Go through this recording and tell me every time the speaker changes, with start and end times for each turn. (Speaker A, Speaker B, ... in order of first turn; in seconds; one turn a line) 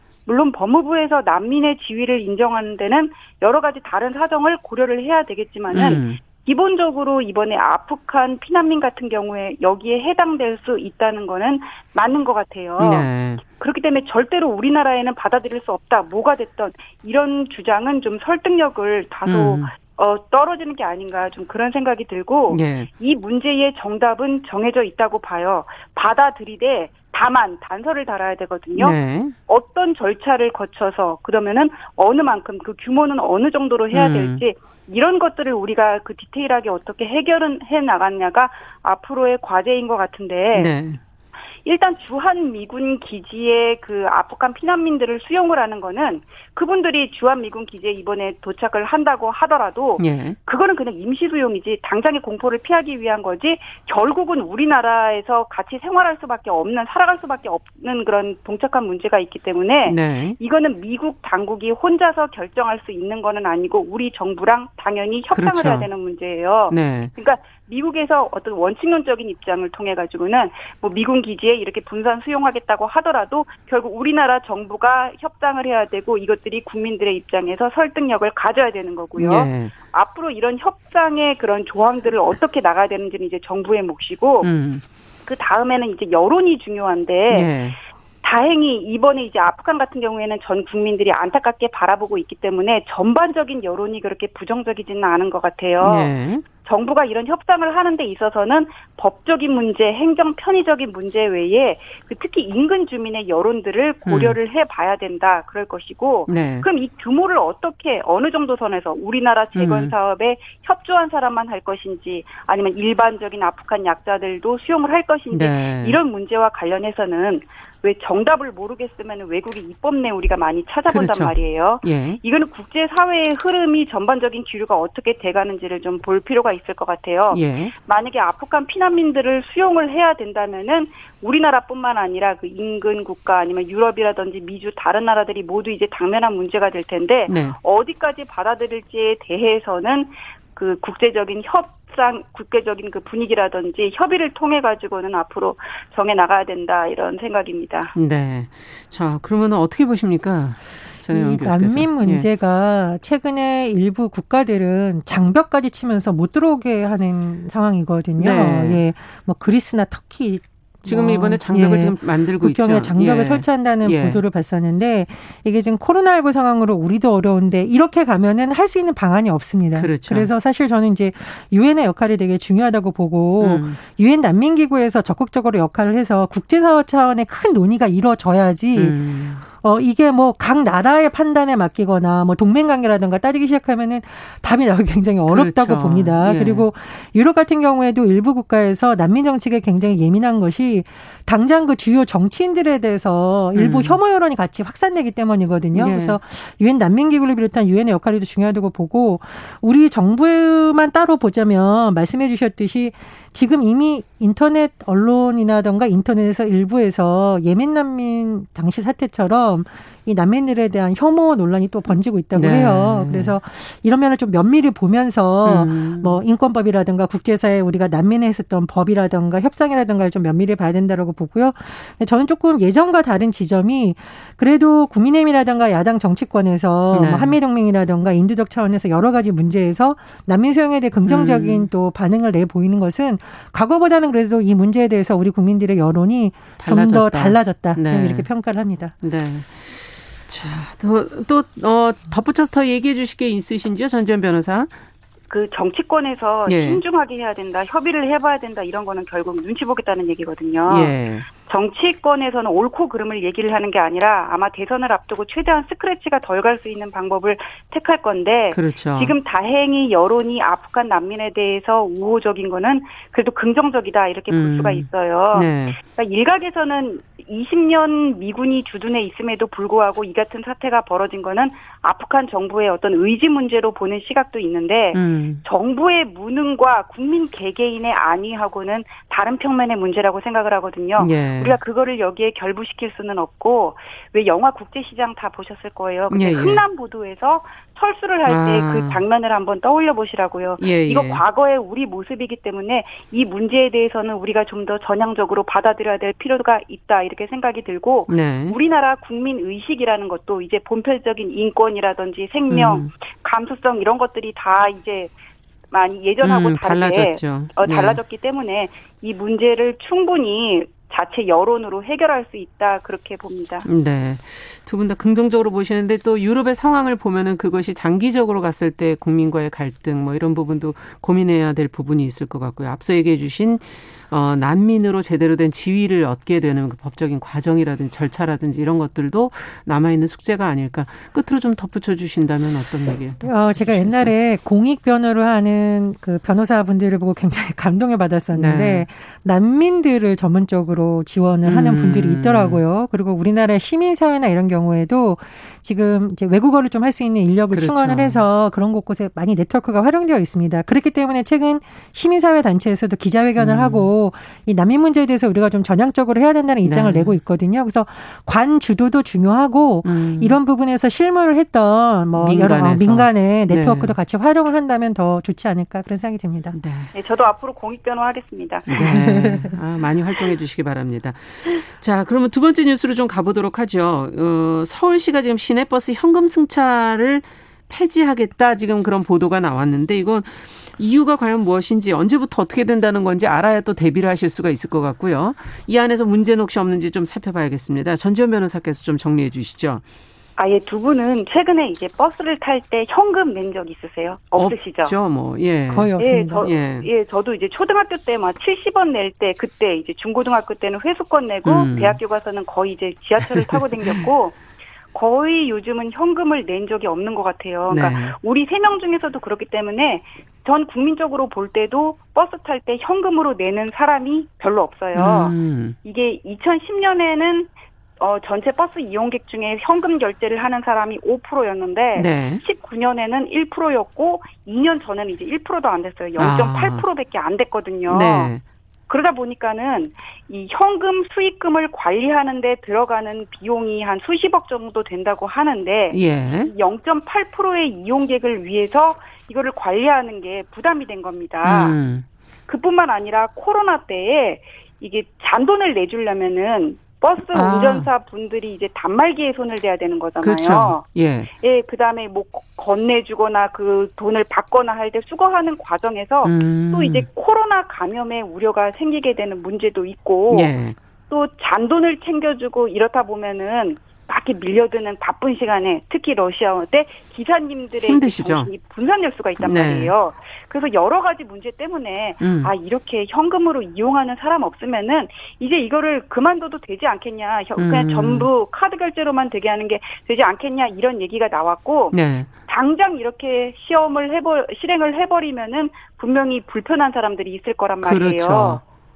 Speaker A: 0.2-28.9
Speaker B: 5.7-6.2
Speaker B: 12.8-13.4
Speaker B: 19.2-19.7
Speaker B: 22.5-22.9
Speaker B: 28.8-29.3
Speaker A: 29.5-40.7
Speaker B: 33.9-34.4
Speaker B: 40.5-41.0
Speaker A: 41.6-84.5
Speaker B: 50.0-50.4
Speaker B: 59.9-60.4
Speaker B: 65.3-65.9
Speaker B: 66.7-67.1
Speaker B: 79.2-79.7
Speaker B: 84.4-84.8
Speaker A: 85.3-87.5
Speaker B: 87.3-87.8
Speaker A: 88.2-96.1
Speaker B: 95.8-96.4
Speaker A: 96.6-147.9
Speaker B: 104.0-104.4
Speaker B: 106.3-106.7
Speaker B: 109.5-109.9
Speaker B: 115.3-116.0
Speaker B: 120.9-122.2
Speaker B: 127.3-127.7
Speaker B: 137.3-137.6
Speaker B: 147.9-152.2
Speaker C: 151.1-238.9
Speaker B: 158.2-158.8
Speaker B: 160.8-164.2
Speaker B: 169.7-170.3
Speaker B: 173.4-173.8
Speaker B: 178.7-179.4
Speaker B: 185.3-186.7
Speaker B: 193.5-194.0
Speaker B: 195.7-196.2
Speaker B: 212.3-213.3
Speaker B: 215.4-216.2
Speaker B: 226.9-227.3
Speaker B: 231.1-231.7
Speaker B: 236.6-238.3
Speaker B: 239.0-244.7
Speaker A: 245.3-305.1
Speaker B: 246.5-246.8
Speaker B: 250.7-251.3
Speaker B: 258.5-259.1
Speaker B: 264.3-265.8
Speaker B: 274.9-275.4
Speaker B: 281.0-281.6
Speaker B: 286.1-286.6
Speaker B: 288.3-289.0
Speaker B: 290.6-291.2
Speaker B: 298.1-298.6
Speaker B: 302.5-302.9
Speaker A: 305.7-313.6
Speaker B: 306.2-308.0
Speaker B: 313.6-334.1
Speaker C: 333.2-366.6
Speaker B: 338.3-338.9
Speaker B: 341.4-342.6
Speaker B: 347.5-348.2
Speaker B: 353.4-353.9
Speaker B: 356.6-357.1
Speaker B: 359.8-360.4
Speaker B: 362.1-364.0
Speaker B: 366.5-366.9
Speaker A: 366.9-369.0
Speaker B: 368.7-389.8
Speaker C: 368.7-369.5
Speaker A: 390.4-394.9
Speaker B: 394.4-396.9
Speaker C: 395.7-396.5
Speaker A: 396.0-404.4
Speaker B: 401.4-402.0
Speaker B: 403.2-404.1
Speaker A: 404.9-428.3
Speaker B: 407.7-408.1
Speaker B: 414.9-415.8
Speaker B: 421.9-422.4
Speaker B: 426.2-426.8
Speaker B: 427.9-428.4
Speaker A: 428.9-441.8
Speaker B: 435.9-436.5
Speaker B: 441.4-442.1
Speaker A: 442.5-450.8
Speaker B: 447.3-447.9
Speaker B: 450.2-451.3
Speaker A: 451.4-460.5
Speaker B: 456.2-457.1
Speaker B: 460.3-460.8
Speaker A: 461.1-488.6
Speaker B: 467.9-468.5
Speaker B: 469.4-469.9
Speaker B: 472.2-472.5
Speaker B: 477.6-478.3
Speaker B: 481.9-482.3
Speaker B: 487.8-488.6